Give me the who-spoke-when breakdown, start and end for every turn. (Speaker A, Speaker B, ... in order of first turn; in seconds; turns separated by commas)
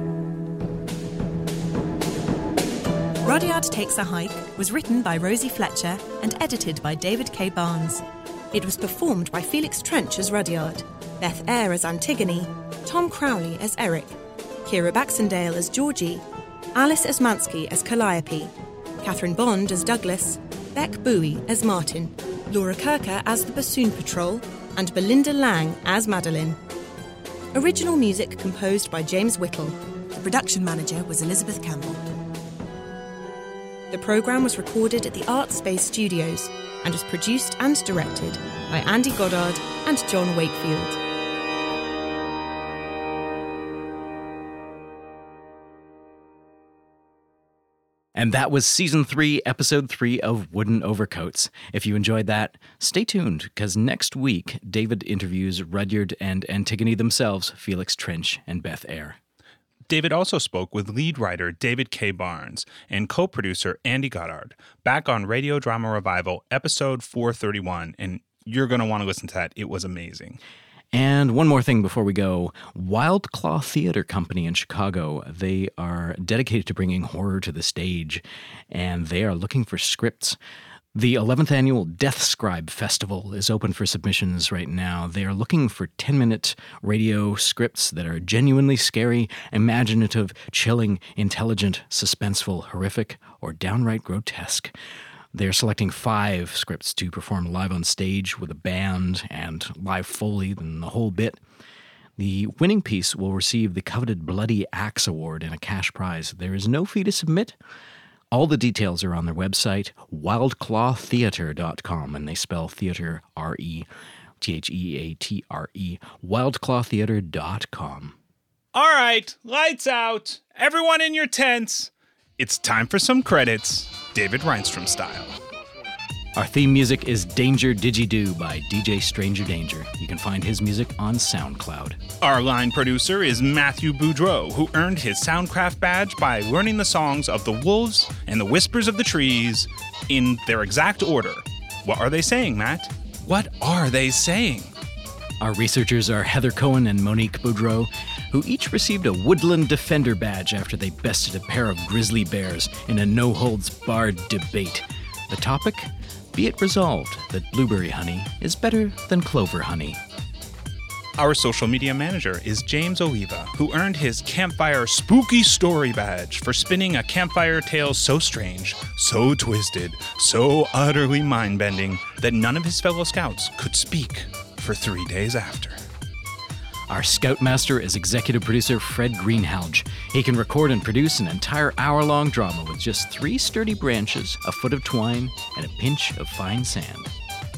Speaker A: 3.2-26.6, Speaker A: 27.5-32.1, Speaker A: 33.9-41.0, Speaker B: 48.1-59.2, Speaker C: 59.9-70.4, Speaker B: 70.9-80.4, Speaker B: 80.9-94.7, Speaker B: 95.3-101.4, Speaker B: 102.2-107.6, Speaker B: 108.3-113.9, Speaker B: 114.4-118.2, Speaker C: 118.7-125.4, Speaker B: 126.3-132.0, Speaker C: 132.2-144.7, Speaker B: 145.4-160.0, Speaker C: 161.2-175.8, Speaker B: 176.9-187.1